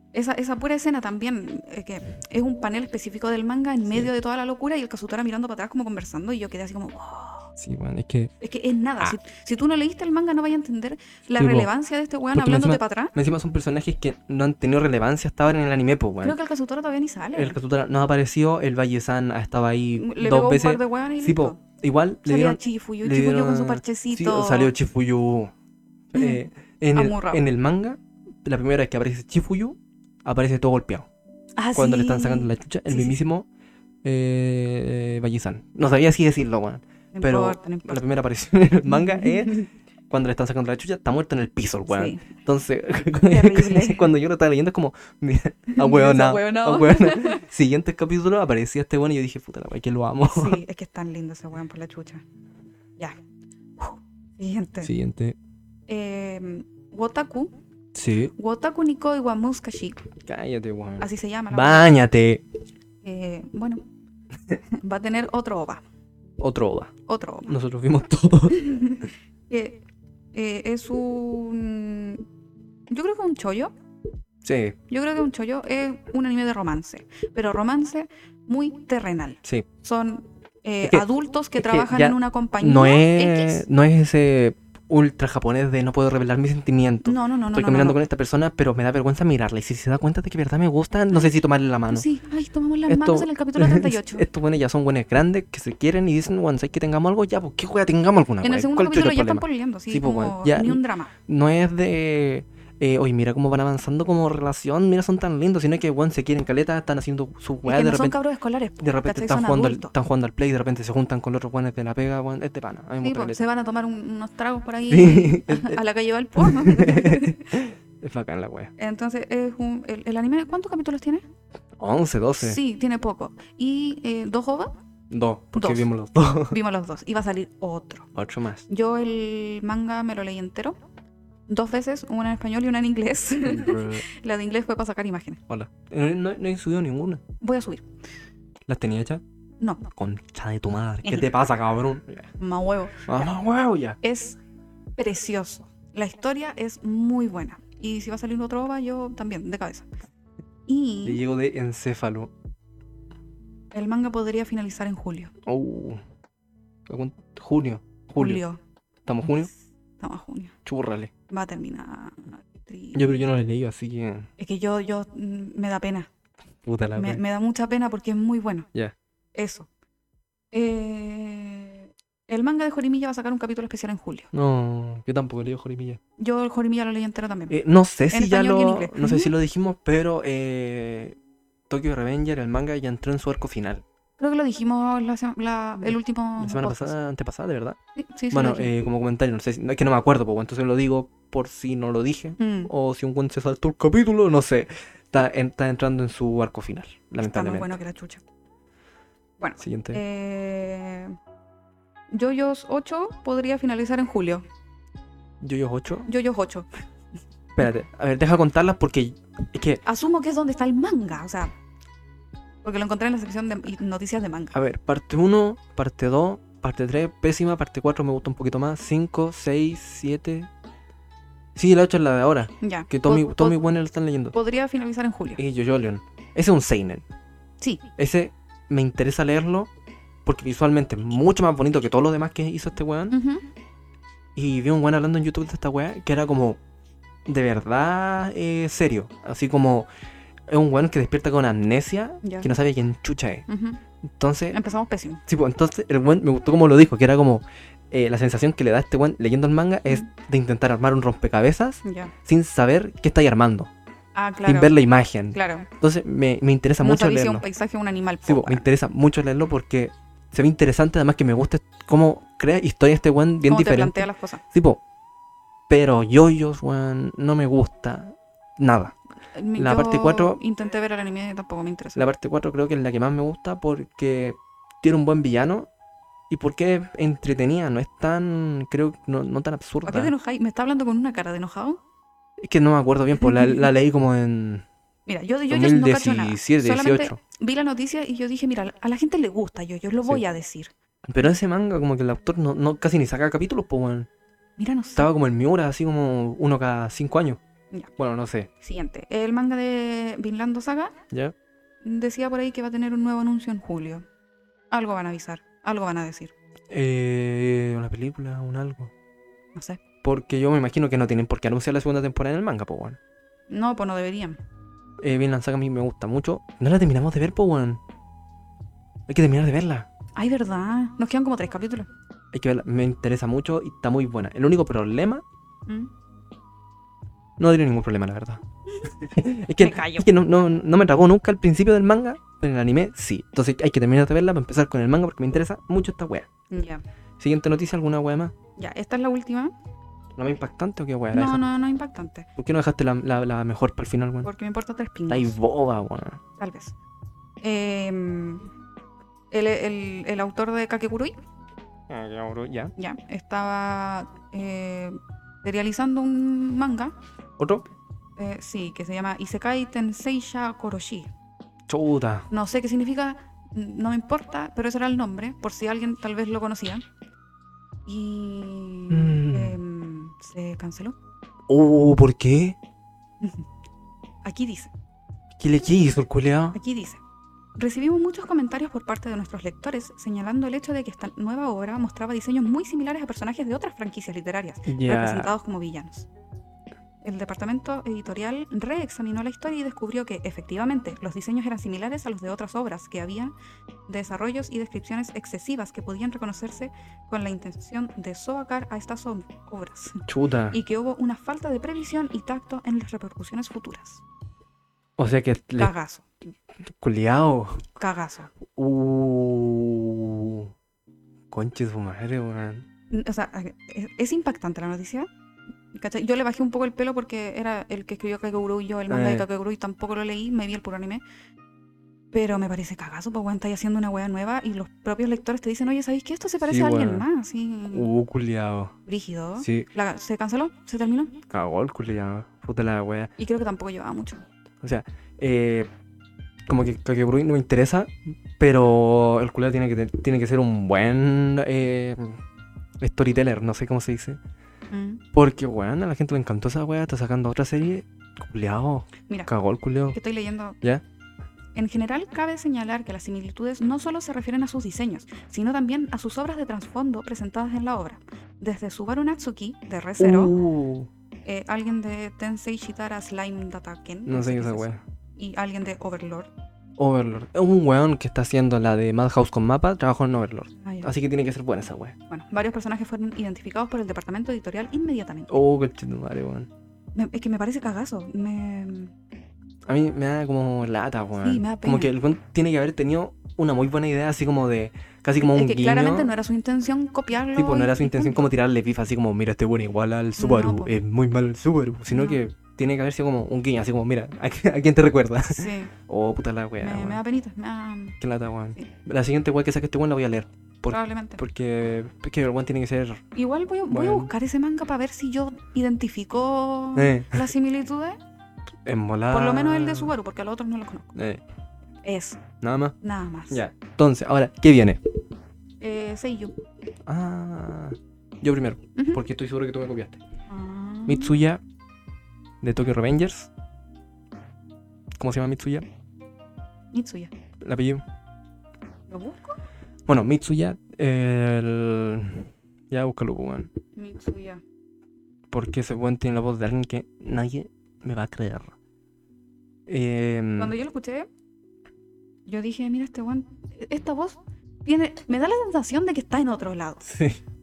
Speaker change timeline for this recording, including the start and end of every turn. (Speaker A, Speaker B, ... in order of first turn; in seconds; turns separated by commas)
Speaker A: 0.1-7.5, Speaker B: 7.6-8.3, Speaker A: 8.4-13.1, Speaker B: 11.4-11.7, Speaker B: 12.3-16.4, Speaker A: 16.2-17.6, Speaker B: 17.3-25.5, Speaker A: 20.0-21.6, Speaker A: 22.2-24.7, Speaker B: 26.1-31.1, Speaker A: 26.2-26.4, Speaker A: 26.9-27.4, Speaker A: 31.6-33.2, Speaker B: 31.7-33.5, Speaker B: 34.0-50.6, Speaker A: 37.1-38.0, Speaker A: 38.9-39.7, Speaker A: 41.9-42.3, Speaker A: 43.3-44.1, Speaker A: 45.7-47.5, Speaker A: 50.2-52.2, Speaker A: 53.8-54.9, Speaker B: 54.8-55.4, Speaker A: 55.9-57.5, Speaker B: 57.9-58.3, Speaker A: 58.4-60.0, Speaker B: 60.2-62.4, Speaker A: 61.0-61.9, Speaker A: 63.0-63.8, Speaker A: 64.7-65.8, Speaker B: 66.4-66.9, Speaker A: 67.1-67.5, Speaker B: 67.5-68.7, Speaker A: 68.5-69.8, Speaker A: 70.3-72.3, Speaker A: 72.9-73.7, Speaker B: 74.4-74.8, Speaker A: 74.9-83.7, Speaker B: 81.6-92.1, Speaker A: 87.0-88.0, Speaker A: 91.9-94.3, Speaker B: 92.9-108.2, Speaker A: 98.4-101.1, Speaker A: 107.7-109.9, Speaker B: 108.8-113.4, Speaker A: 113.0-117.5, Speaker B: 114.9-115.8, Speaker B: 116.4-118.7, Speaker A: 118.8-121.2, Speaker B: 121.8-122.6, Speaker A: 122.4-124.8, Speaker B: 125.1-126.6, Speaker A: 125.5-125.9, Speaker A: 126.5-128.1, Speaker B: 128.2-128.7, Speaker A: 128.7-130.8, Speaker A: 131.5-135.4, Speaker B: 133.4-134.1, Speaker B: 135.5-137.2, Speaker A: 137.4-137.8, Speaker B: 138.7-139.2, Speaker A: 139.6-139.9, Speaker B: 139.9-142.3, Speaker A: 141.0-141.3, Speaker A: 142.4-143.3, Speaker B: 143.1-144.0, Speaker A: 144.0-144.4, Speaker A: 145.0-149.9, Speaker A: 150.7-151.2, Speaker B: 151.0-152.3, Speaker A: 153.7-155.3, Speaker B: 155.4-156.0, Speaker B: 156.9-158.4, Speaker A: 158.2-158.6, Speaker B: 159.1-159.5, Speaker A: 160.0-160.6, Speaker B: 160.7-161.1, Speaker A: 161.3-163.2, Speaker B: 162.9-164.3, Speaker A: 164.4-166.1, Speaker B: 166.7-167.2, Speaker A: 166.9-168.7, Speaker A: 169.3-169.7, Speaker A: 170.5-174.3, Speaker B: 174.3-176.0, Speaker A: 176.2-177.6, Speaker B: 177.5-181.2, Speaker A: 178.1-179.3, Speaker B: 181.7-183.8, Speaker A: 184.2-187.0, Speaker B: 185.8-187.8, Speaker A: 188.0-188.7, Speaker B: 188.3-197.8, Speaker A: 192.4-192.7, Speaker A: 197.2-198.2, Speaker A: 199.4-201.2, Speaker B: 199.6-200.0, Speaker A: 202.1-204.5, Speaker B: 205.4-206.1, Speaker A: 206.1-206.7, Speaker B: 207.6-209.8, Speaker A: 209.8-211.5, Speaker A: 212.6-214.6, Speaker B: 214.5-220.5, Speaker B: 221.6-224.4, Speaker A: 222.6-223.6, Speaker A: 224.3-225.4, Speaker B: 225.4-227.1, Speaker A: 227.6-227.9, Speaker B: 228.0-229.7, Speaker B: 230.2-233.2, Speaker A: 233.1-233.5, Speaker B: 234.3-236.6, Speaker B: 237.3-239.9, Speaker B: 240.5-243.5, Speaker A: 242.2-242.5, Speaker A: 243.5-243.8, Speaker B: 244.2-244.6, Speaker A: 244.5-245.2, Speaker B: 245.3-253.7, Speaker A: 251.8-252.1, Speaker A: 254.2-254.8, Speaker B: 254.4-257.4, Speaker A: 255.3-255.7, Speaker A: 256.8-258.7, Speaker B: 258.2-264.8, Speaker A: 263.4-264.4, Speaker B: 265.7-268.9, Speaker A: 269.3-272.0, Speaker B: 269.6-270.4, Speaker B: 271.9-275.7, Speaker B: 276.3-280.1, Speaker A: 279.9-281.8, Speaker B: 282.4-284.7, Speaker A: 283.2-283.6, Speaker A: 285.1-290.7, Speaker B: 285.5-287.2, Speaker B: 291.1-294.1, Speaker A: 294.6-295.1, Speaker B: 295.0-297.4, Speaker B: 298.0-298.5, Speaker A: 298.6-301.0, Speaker A: 301.8-304.1, Speaker A: 304.7-306.3, Speaker B: 306.7-308.9, Speaker A: 309.5-309.8, Speaker B: 310.0-313.0, Speaker A: 313.5-314.4, Speaker B: 315.0-317.8, Speaker B: 319.1-319.9, Speaker A: 320.1-321.9, Speaker B: 322.3-325.2, Speaker A: 325.7-325.9, Speaker B: 327.4-328.4, Speaker B: 328.9-336.3, Speaker A: 329.6-330.1, Speaker A: 336.5-336.8, Speaker B: 337.2-338.3, Speaker A: 338.6-339.5, Speaker B: 340.2-341.4, Speaker A: 341.1-342.3, Speaker B: 342.4-344.3, Speaker A: 344.2-345.4, Speaker B: 345.1-346.2, Speaker A: 346.4-346.8, Speaker A: 347.4-348.5, Speaker A: 349.3-351.1, Speaker B: 351.9-352.7, Speaker A: 352.8-356.9, Speaker B: 357.4-357.7, Speaker A: 358.2-361.1, Speaker B: 361.7-362.3, Speaker A: 362.3-366.9, Speaker A: 367.9-371.0, Speaker B: 368.9-369.6, Speaker B: 371.5-372.6, Speaker A: 373.2-373.5, Speaker A: 374.2-374.7, Speaker B: 375.4-376.6, Speaker A: 376.5-377.0, Speaker A: 377.6-386.1, Speaker B: 384.7-385.3, Speaker A: 387.0-393.3, Speaker A: 393.9-404.0, Speaker B: 400.1-400.6, Speaker B: 405.0-405.7, Speaker A: 405.6-406.0, Speaker B: 406.8-407.7, Speaker A: 407.8-408.3, Speaker B: 408.5-410.5, Speaker B: 411.3-412.7, Speaker A: 412.9-415.1, Speaker A: 415.7-421.0, Speaker B: 418.9-419.3, Speaker A: 422.1-427.9, Speaker B: 426.4-427.1, Speaker B: 427.7-428.8, Speaker A: 428.9-431.2, Speaker B: 429.4-429.7, Speaker B: 431.3-433.1, Speaker A: 433.2-434.2, Speaker B: 434.6-435.7, Speaker B: 436.5-442.2, Speaker B: 442.8-444.2, Speaker A: 444.7-445.0, Speaker B: 445.1-450.0, Speaker A: 449.9-450.6, Speaker A: 451.6-460.4, Speaker B: 460.0-460.9, Speaker A: 461.2-466.3, Speaker B: 464.1-464.8, Speaker B: 466.8-472.0, Speaker A: 470.6-470.9, Speaker A: 472.1-475.3, Speaker B: 475.3-476.5, Speaker A: 476.9-478.9, Speaker B: 479.7-486.1, Speaker A: 481.2-481.9, Speaker A: 485.2-488.3, Speaker B: 487.4-497.0, Speaker A: 490.2-490.7, Speaker A: 491.9-492.2, Speaker A: 495.3-495.7, Speaker A: 496.6-498.0, Speaker B: 498.0-503.0, Speaker A: 500.7-501.2, Speaker A: 503.1-508.0, Speaker B: 503.7-504.1, Speaker B: 506.8-507.2, Speaker B: 508.7-509.9, Speaker A: 509.1-510.9, Speaker B: 510.9-511.2, Speaker A: 511.8-512.2, Speaker B: 512.4-512.8, Speaker A: 512.8-513.4, Speaker B: 513.3-514.8, Speaker A: 515.6-516.4, Speaker B: 516.9-520.0, Speaker A: 518.8-519.0, Speaker A: 520.3-521.1, Speaker B: 520.9-521.4, Speaker B: 522.4-523.3, Speaker B: 525.0-525.7, Speaker A: 526.7-527.1, Speaker B: 527.4-527.8, Speaker A: 528.9-529.4, Speaker B: 529.9-533.5, Speaker A: 533.8-534.4, Speaker B: 535.3-538.5, Speaker B: 539.7-540.6, Speaker A: 540.4-541.1, Speaker A: 542.2-546.8, Speaker B: 546.9-547.2